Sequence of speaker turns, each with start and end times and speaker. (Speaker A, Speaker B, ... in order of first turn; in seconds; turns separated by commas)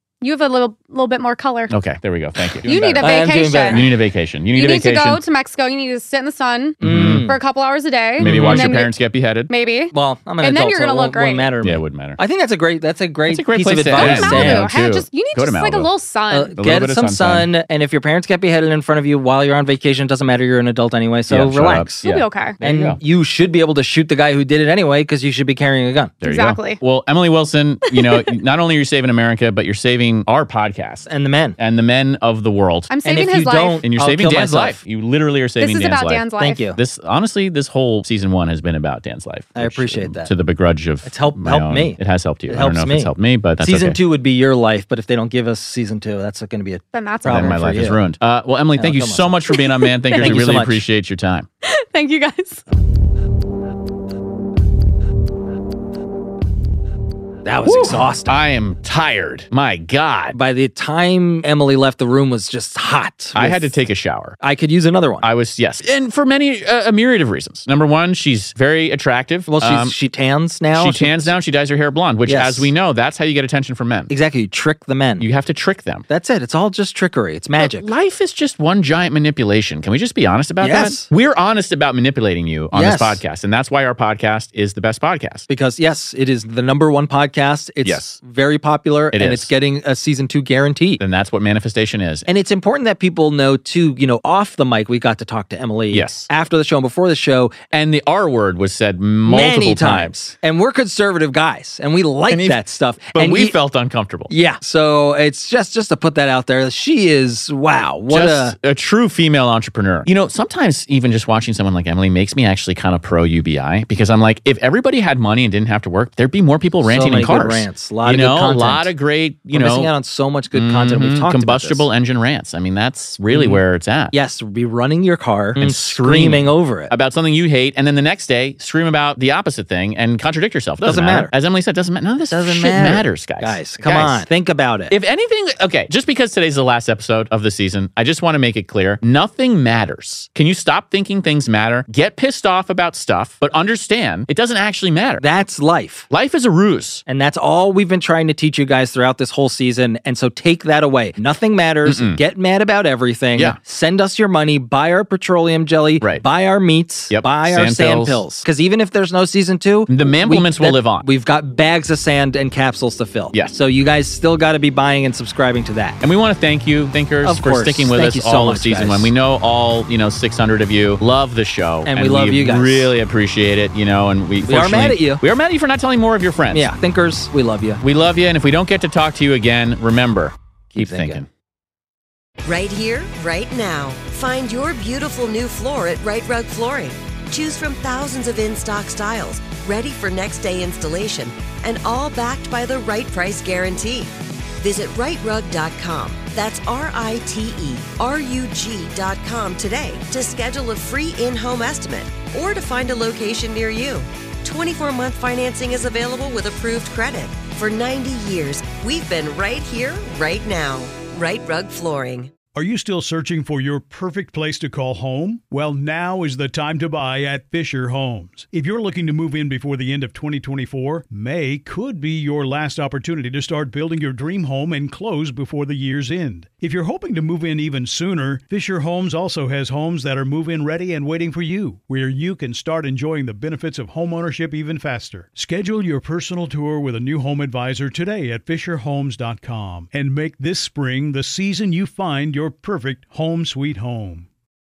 Speaker A: 0.2-1.7, Speaker B: 1.7-5.2, Speaker A: 2.6-3.9, Speaker C: 3.0-3.9, Speaker A: 4.5-8.9, Speaker B: 6.8-7.3, Speaker C: 6.8-7.4, Speaker B: 8.2-9.5, Speaker C: 8.2-8.7, Speaker A: 9.5-11.5, Speaker C: 9.9-14.7, Speaker B: 11.6-12.2, Speaker B: 13.3-15.9, Speaker A: 13.9-16.5, Speaker C: 16.3-22.0, Speaker B: 16.6-17.5, Speaker B: 21.3-23.0, Speaker A: 22.0-22.6, Speaker C: 22.6-26.1, Speaker A: 26.2-26.8, Speaker B: 26.2-32.9, Speaker A: 27.9-28.4, Speaker C: 31.1-31.6, Speaker A: 32.9-33.8, Speaker C: 33.0-34.8, Speaker B: 33.8-44.0, Speaker A: 35.6-36.7, Speaker C: 36.4-36.8, Speaker C: 39.5-40.3, Speaker C: 41.0-48.0, Speaker A: 46.9-47.6, Speaker B: 47.2-51.5, Speaker C: 48.8-49.4, Speaker A: 49.5-50.3, Speaker C: 50.1-50.8, Speaker A: 51.6-52.6, Speaker C: 57.4-58.4, Speaker B: 57.6-60.4, Speaker C: 60.3-63.7, Speaker B: 63.3-64.4, Speaker C: 64.4-65.3, Speaker B: 65.2-70.0, Speaker C: 69.5-71.3, Speaker B: 70.7-74.1, Speaker C: 72.2-72.7, Speaker C: 74.1-75.3, Speaker B: 75.2-76.0, Speaker C: 76.1-77.9, Speaker B: 77.6-85.5, Speaker C: 80.6-81.1, Speaker C: 82.7-83.2, Speaker C: 85.5-91.0, Speaker B: 87.8-88.2, Speaker B: 89.1-89.5, Speaker B: 91.0-92.2, Speaker C: 92.3-97.5, Speaker B: 95.9-96.3, Speaker B: 97.7-100.2, Speaker C: 99.2-103.6, Speaker B: 102.3-104.3, Speaker C: 104.3-108.5, Speaker B: 108.1-119.9, Speaker C: 116.8-118.9, Speaker C: 119.5-121.8, Speaker B: 120.5-124.1, Speaker C: 123.3-126.9, Speaker B: 125.6-134.3, Speaker C: 130.8-131.3, Speaker C: 132.3-134.9, Speaker B: 134.9-145.2, Speaker C: 145.2-146.1, Speaker B: 146.1-147.0, Speaker C: 147.1-166.0, Speaker B: 151.8-152.2, Speaker B: 157.1-158.2, Speaker B: 159.9-161.1, Speaker B: 163.3-163.6, Speaker B: 166.0-176.7, Speaker C: 167.2-169.1, Speaker C: 171.8-172.9, Speaker C: 174.4-175.2, Speaker C: 176.5-177.8, Speaker B: 177.8-181.3, Speaker C: 180.7-181.2, Speaker D: 182.4-212.3, Speaker E: 212.5-244.3